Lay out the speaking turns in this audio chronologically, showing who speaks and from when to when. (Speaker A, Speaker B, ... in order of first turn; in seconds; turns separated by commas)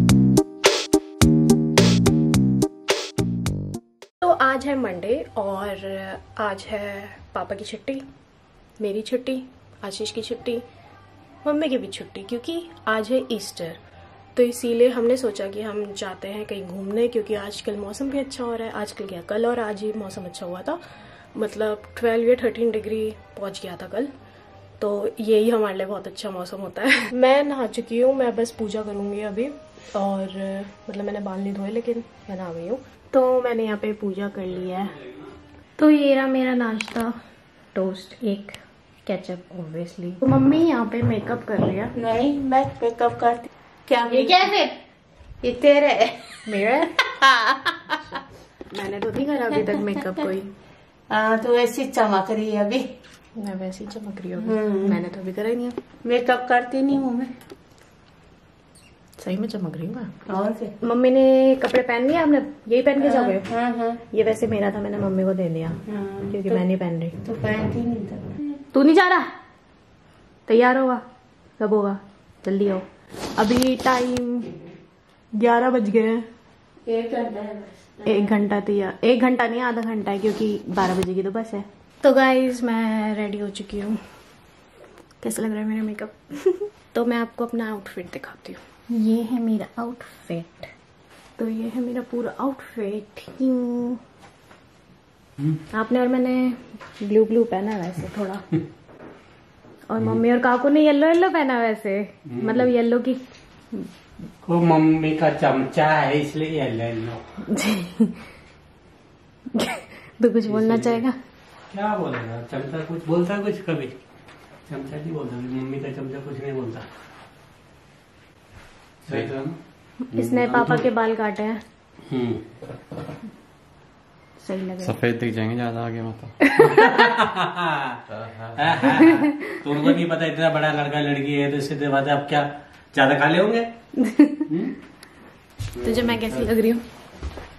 Speaker A: 4.2-8.0, Speaker A: 8.8-10.6, Speaker A: 11.4-13.8, Speaker A: 14.3-20.8, Speaker A: 21.3-24.1, Speaker A: 24.8-34.9, Speaker A: 35.8-37.1, Speaker A: 37.7-41.9, Speaker B: 42.0-44.8, Speaker A: 44.0-44.5, Speaker B: 45.4-48.2, Speaker A: 46.4-47.0, Speaker A: 48.7-50.5, Speaker B: 49.5-50.0, Speaker B: 51.1-52.9, Speaker A: 53.4-55.8, Speaker B: 54.4-55.0, Speaker B: 56.0-57.3, Speaker A: 59.2-60.1, Speaker B: 60.3-60.7, Speaker A: 60.8-63.5, Speaker B: 63.0-64.0, Speaker A: 64.1-67.2, Speaker B: 65.9-66.6, Speaker B: 67.2-68.3, Speaker A: 68.7-69.2, Speaker A: 70.5-71.0, Speaker A: 71.6-72.8, Speaker A: 73.4-74.5, Speaker A: 75.4-76.2, Speaker B: 76.8-78.3, Speaker A: 78.0-84.0, Speaker A: 85.2-90.7, Speaker A: 91.4-94.0, Speaker A: 95.7-98.5, Speaker A: 99.9-103.2, Speaker C: 102.3-102.6, Speaker C: 104.4-107.2, Speaker A: 107.5-108.2, Speaker A: 109.5-111.2, Speaker C: 110.5-111.0, Speaker C: 111.7-113.9, Speaker C: 114.7-116.8, Speaker C: 119.0-119.6, Speaker A: 120.1-121.6, Speaker C: 120.2-120.8, Speaker C: 122.1-122.4, Speaker A: 124.4-125.0, Speaker D: 124.8-126.4, Speaker A: 126.5-127.0, Speaker C: 126.6-128.0, Speaker D: 128.1-129.0, Speaker C: 128.6-133.7, Speaker A: 134.0-134.4, Speaker C: 134.4-134.7, Speaker A: 135.8-136.8